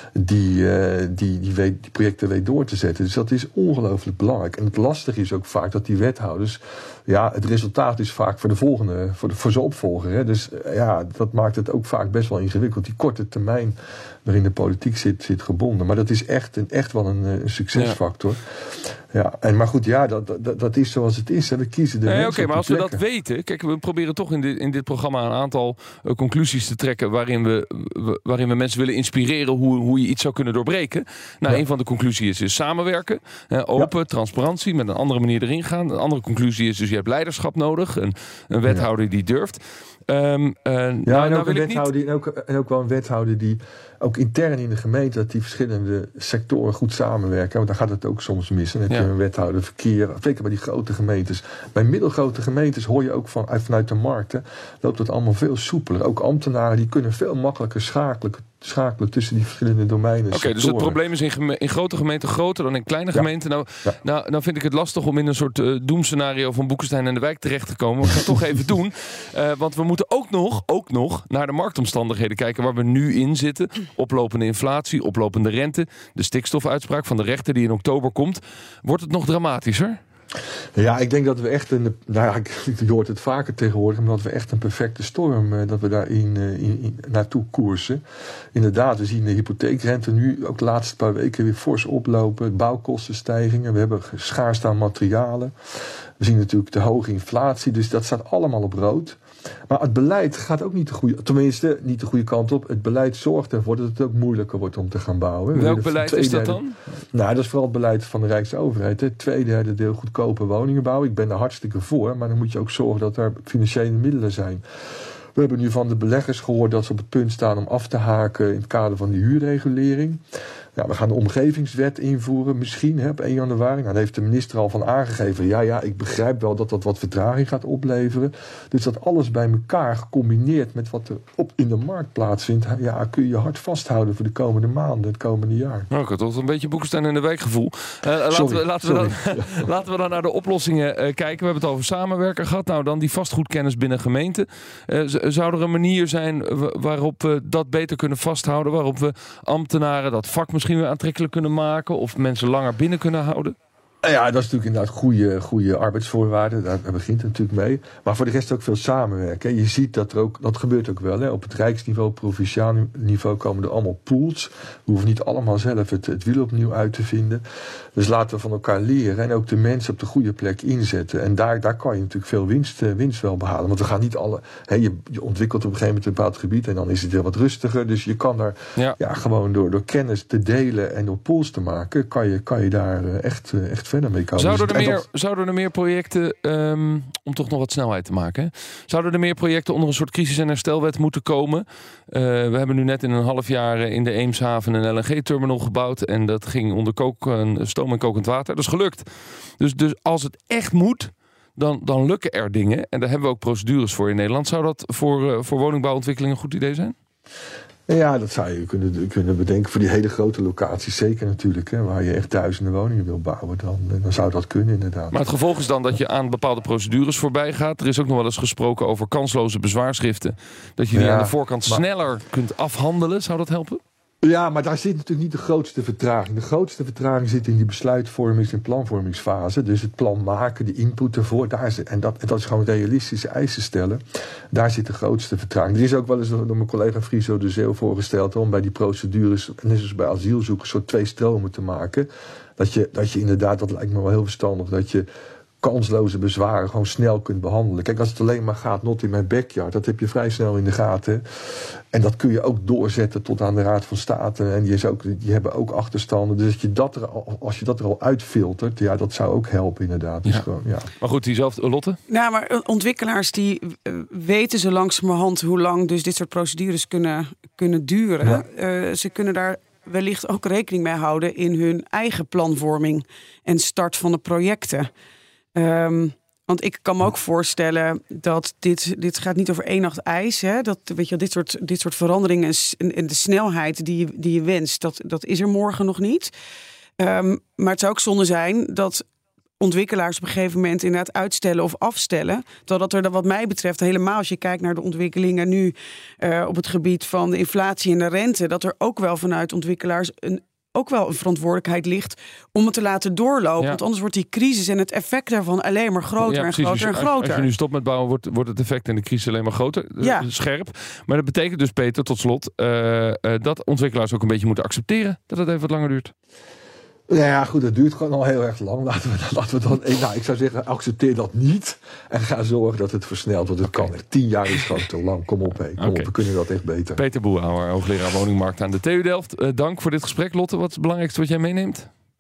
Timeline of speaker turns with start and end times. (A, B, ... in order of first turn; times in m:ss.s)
0:00.2-0:23.0 A
0:22.1-0:41.9 B
0:41.1-1:01.0 A
1:00.3-1:20.0 B
1:20.8-1:28.0 A
1:28.5-1:35.5 A
1:36.2-1:46.6 A
1:45.5-1:46.8 B
1:47.1-1:54.6 A
1:55.4-2:00.2 A
2:00.8-2:15.9 A
2:15.9-2:33.6 B
2:18.3-2:19.7 A
2:34.0-2:47.4 A
2:48.0-3:05.0 A
3:04.4-3:19.1 B
3:19.6-3:27.0 B
3:27.9-3:35.2 A
3:35.1-3:43.8 B
3:40.9-3:41.8 A
3:44.2-3:54.0 A
3:54.5-4:05.1 A
4:05.6-4:20.9 A
4:21.0-4:22.0 B
4:22.1-4:34.9 C
4:35.6-4:46.3 C
4:47.0-4:49.0 C
4:49.6-5:07.5 C
5:06.2-5:16.1 B
5:10.0-5:10.3 C
5:17.1-5:27.0 A
5:23.6-5:23.9 B
5:25.8-5:26.1 B
5:27.0-5:31.9 B